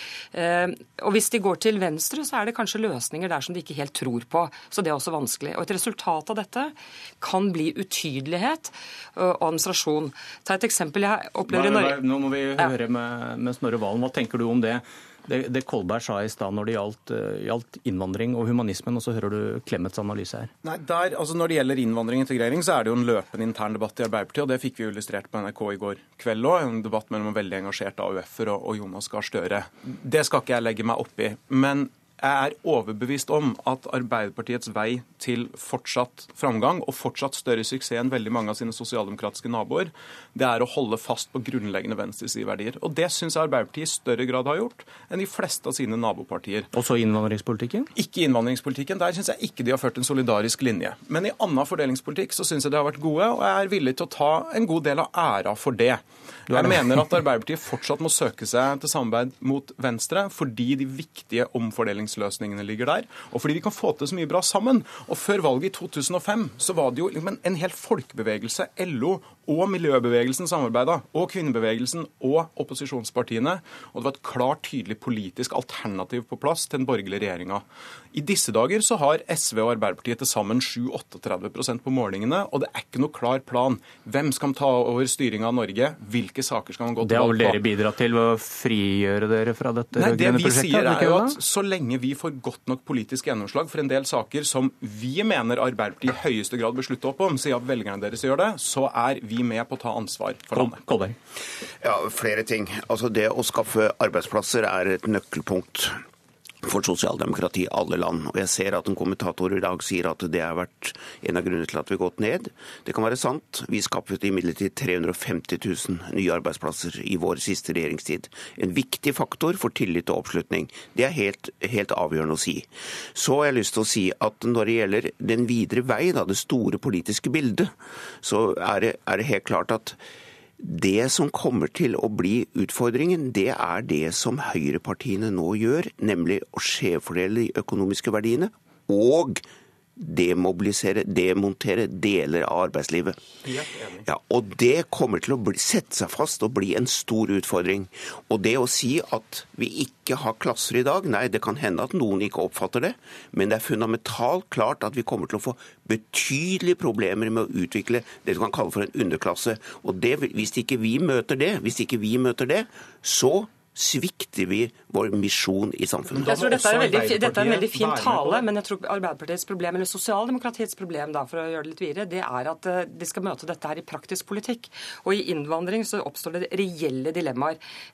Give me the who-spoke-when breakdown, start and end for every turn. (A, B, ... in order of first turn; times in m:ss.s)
0:00.3-0:12.0 A
0:11.4-0:20.5 B
0:20.6-0:46.7 C
0:46.7-0:47.9 B
0:47.9-1:27.6 C
0:56.5-0:57.2 B
1:27.0-1:31.4 B
1:29.9-1:40.8 C
1:40.5-1:41.1 B
1:41.8-1:46.0 D
1:46.6-2:10.0 D
2:10.6-2:19.4 D
2:20.0-2:23.2 D
2:23.5-2:24.0 C
2:24.0-2:46.4 D
2:46.1-2:48.5 C
2:46.2-2:57.6 A